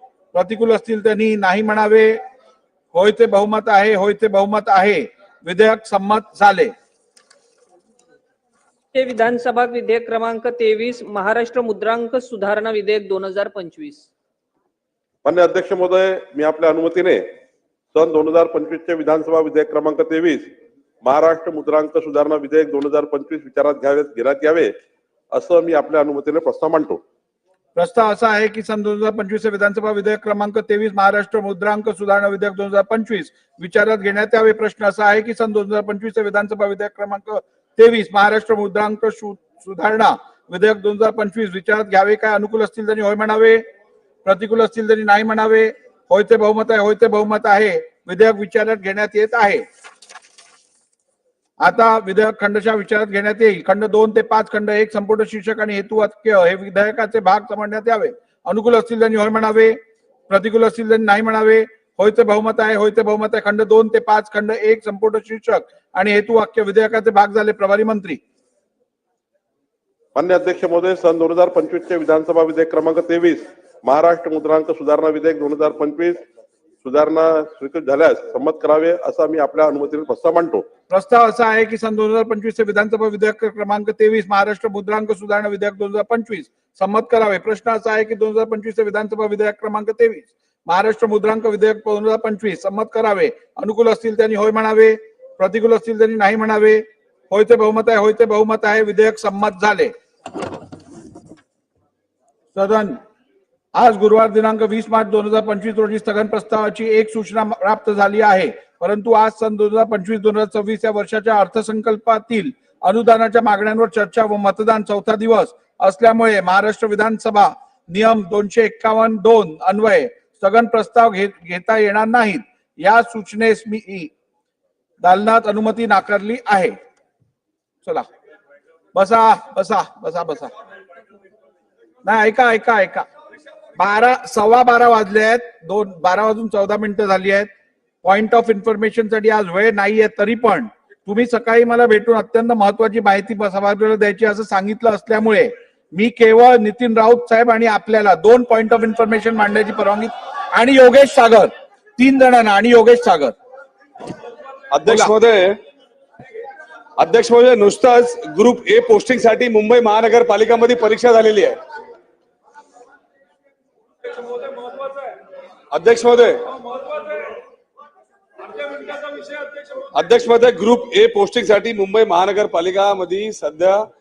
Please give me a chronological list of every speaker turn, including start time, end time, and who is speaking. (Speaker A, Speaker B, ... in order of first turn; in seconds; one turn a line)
Speaker A: 0.3-2.2
Speaker A: 2.9-6.7
Speaker B: 8.9-14.1
Speaker C: 15.2-17.2
Speaker C: 17.9-24.7
Speaker C: 25.3-27.0
Speaker A: 27.8-43.6
Speaker A: 44.2-49.6
Speaker A: 51.6-68.2
Speaker C: 70.1-76.2
Speaker C: 76.8-80.6
Speaker A: 80.9-99.9
Speaker A: 102.5-103.0
Speaker A: 103.7-124.1
Speaker A: 125.0-126.8
Speaker A: 128.9-130.5
Speaker A: 132.0-133.1
Speaker A: 133.8-137.5
Speaker A: 138.0-153.3
Speaker D: 154.8-155.5
Speaker D: 157.0-161.6
Speaker D: 165.7-166.4
Speaker D: 169.9-173.8